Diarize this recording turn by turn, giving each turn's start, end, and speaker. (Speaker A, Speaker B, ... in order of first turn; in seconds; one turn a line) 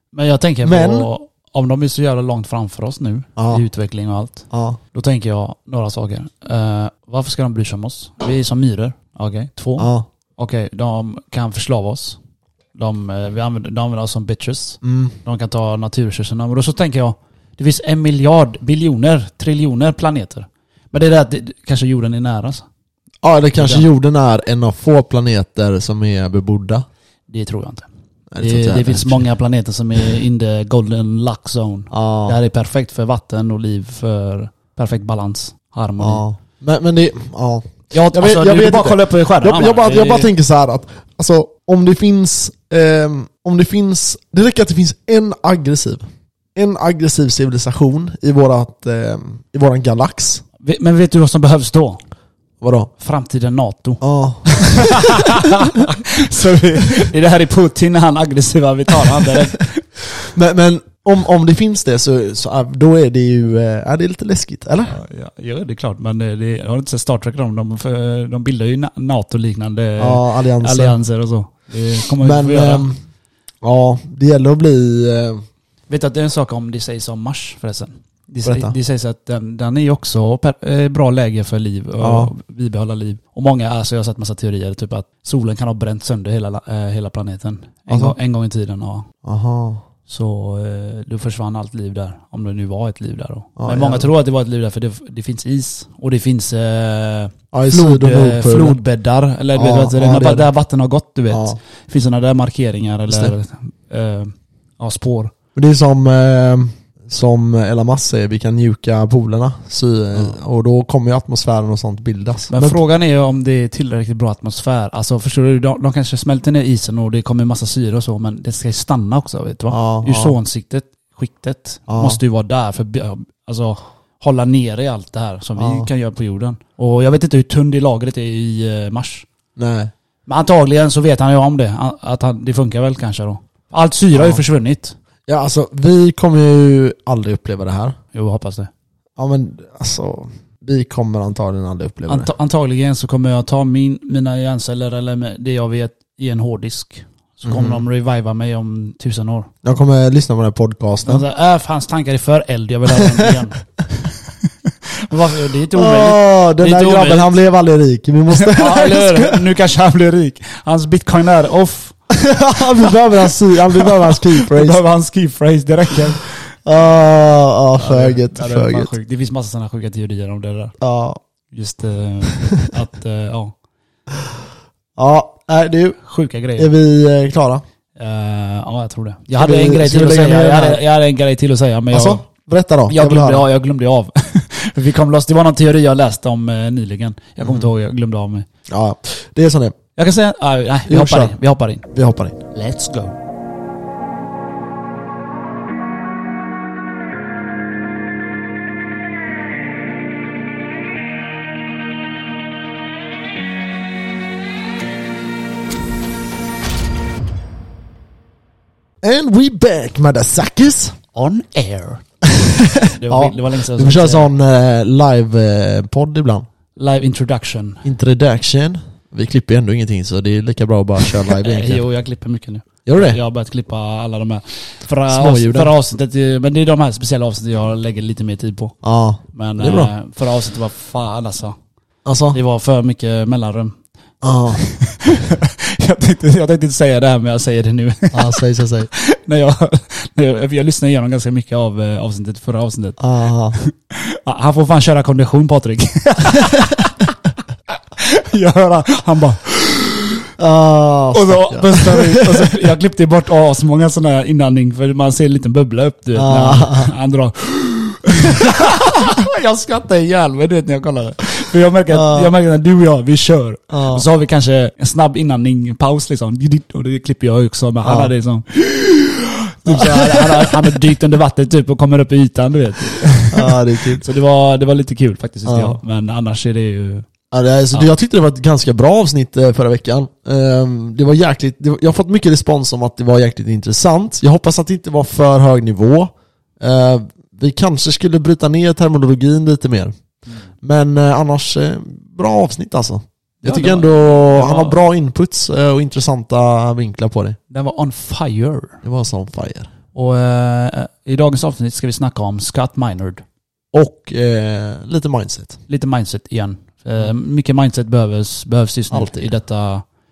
Speaker A: 0.1-12.2
Speaker B: 0.6-1.1
Speaker B: 3.4-3.6
Speaker B: 4.5-4.8
Speaker B: 9.8-10.1
Speaker A: 12.8-22.7
Speaker B: 14.8-15.2
Speaker B: 23.2-26.9
Speaker A: 23.6-23.8
Speaker A: 27.3-27.9
Speaker B: 28.3-29.3
Speaker A: 28.4-36.2
Speaker B: 31.9-32.4
Speaker B: 36.0-46.0
Speaker A: 37.9-40.3
Speaker B: 46.5-50.4
Speaker A: 50.6-52.0
Speaker B: 52.6-52.9
Speaker A: 53.0-59.8
Speaker B: 54.0-55.3
Speaker B: 60.3-65.0
Speaker A: 64.9-72.9
Speaker B: 70.0-71.0
Speaker B: 72.2-73.0
Speaker B: 73.6-75.4
Speaker A: 75.9-89.1
Speaker B: 78.4-78.8
Speaker B: 82.0-82.3
Speaker B: 87.9-88.2
Speaker B: 89.2-89.8
Speaker A: 90.1-105.3
Speaker B: 93.6-94.1
Speaker B: 97.5-98.8
Speaker B: 99.5-100.5
Speaker B: 101.3-101.6
Speaker B: 103.1-103.3
Speaker B: 105.5-112.8
Speaker A: 112.5-129.3
Speaker B: 119.7-120.3
Speaker B: 121.9-122.2
Speaker B: 125.6-125.9
Speaker B: 129.6-129.9
Speaker A: 130.3-134.9
Speaker B: 134.1-134.4
Speaker B: 135.3-138.0
Speaker A: 138.1-138.7
Speaker B: 139.2-142.3
Speaker A: 142.1-149.5
Speaker B: 147.4-147.8
Speaker B: 149.6-151.2
Speaker A: 151.1-153.6
Speaker B: 152.9-153.3
Speaker A: 155.0-157.3
Speaker B: 155.7-159.4
Speaker A: 158.3-161.9
Speaker B: 162.1-164.8
Speaker A: 163.8-166.6
Speaker B: 166.7-168.9
Speaker A: 167.8-170.7
Speaker B: 170.8-171.2
Speaker A: 171.5-173.5
Speaker B: 175.0-176.0
Speaker A: 176.0-176.7
Speaker B: 176.6-177.6
Speaker A: 178.0-182.2
Speaker B: 179.4-180.8
Speaker B: 181.9-183.4
Speaker A: 182.9-188.5
Speaker B: 187.4-187.7
Speaker B: 188.7-189.8
Speaker A: 190.0-191.8
Speaker B: 190.9-191.3
Speaker B: 191.9-192.4
Speaker A: 192.5-193.1
Speaker B: 209.0-211.0
Speaker A: 211.1-212.1
Speaker B: 212.2-216.5
Speaker A: 212.8-214.3
Speaker A: 216.8-217.8
Speaker B: 217.8-221.8
Speaker A: 221.2-228.8
Speaker B: 222.9-223.2
Speaker B: 225.1-225.7
Speaker B: 228.8-229.9
Speaker A: 229.3-231.6
Speaker B: 232.1-232.4
Speaker A: 232.3-233.8
Speaker B: 234.2-234.6
Speaker A: 234.6-243.0
Speaker B: 238.1-238.9
Speaker B: 243.0-243.6
Speaker A: 243.6-247.1
Speaker A: 247.7-250.2
Speaker B: 250.4-252.5
Speaker A: 251.1-277.1
Speaker B: 256.2-256.9
Speaker B: 261.9-262.3
Speaker B: 263.7-264.1
Speaker B: 267.8-268.1
Speaker B: 269.7-270.8
Speaker B: 273.3-274.0
Speaker B: 275.5-275.8
Speaker B: 277.3-289.9
Speaker B: 290.6-297.4
Speaker A: 293.4-294.8
Speaker A: 297.5-298.8
Speaker B: 298.8-299.7
Speaker A: 299.9-303.2
Speaker B: 303.7-305.6
Speaker A: 305.7-309.8
Speaker B: 308.9-309.2